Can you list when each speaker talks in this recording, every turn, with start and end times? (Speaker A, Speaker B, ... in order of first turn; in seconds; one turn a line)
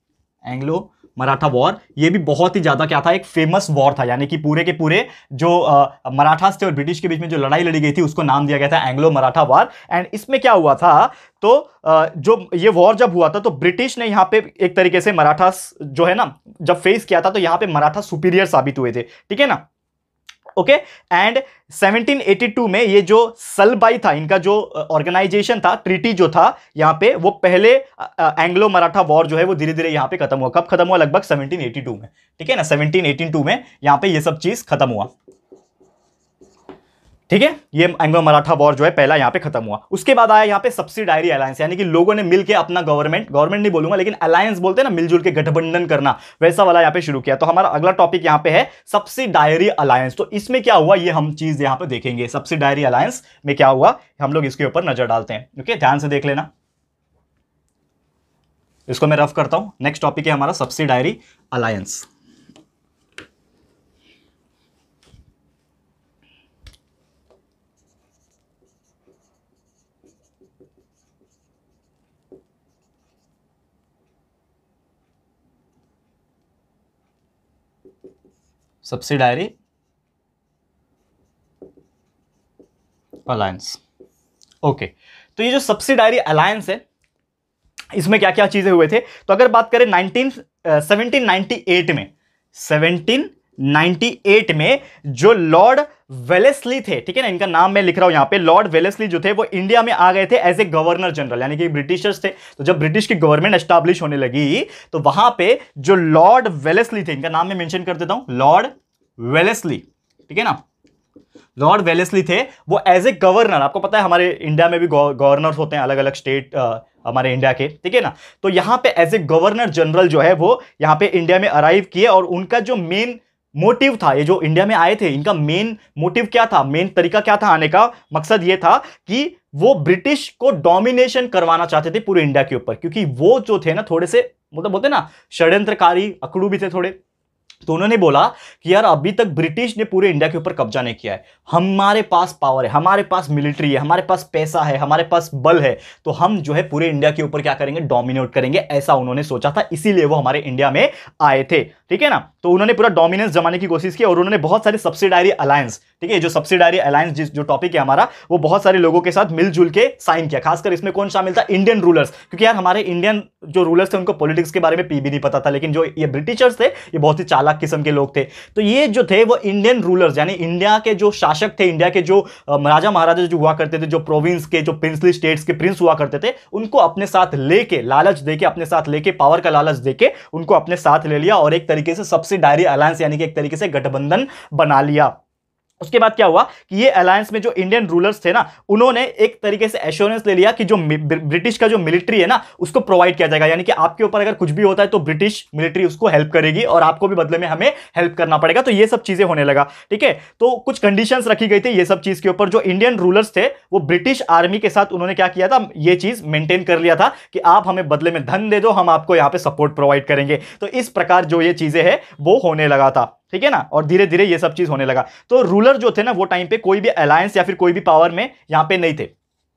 Speaker A: 0.4-19.6
Speaker A: 20.6-35.1
Speaker A: 37.3-56.5
Speaker A: 58.9-62.1
Speaker A: 78.8-79.5
Speaker A: 83.3-83.8
Speaker A: 84.6-86.8
Speaker A: 87.9-110.6
Speaker A: 111.6-136.9
Speaker A: 137.6-185.1
Speaker A: 185.8-219.1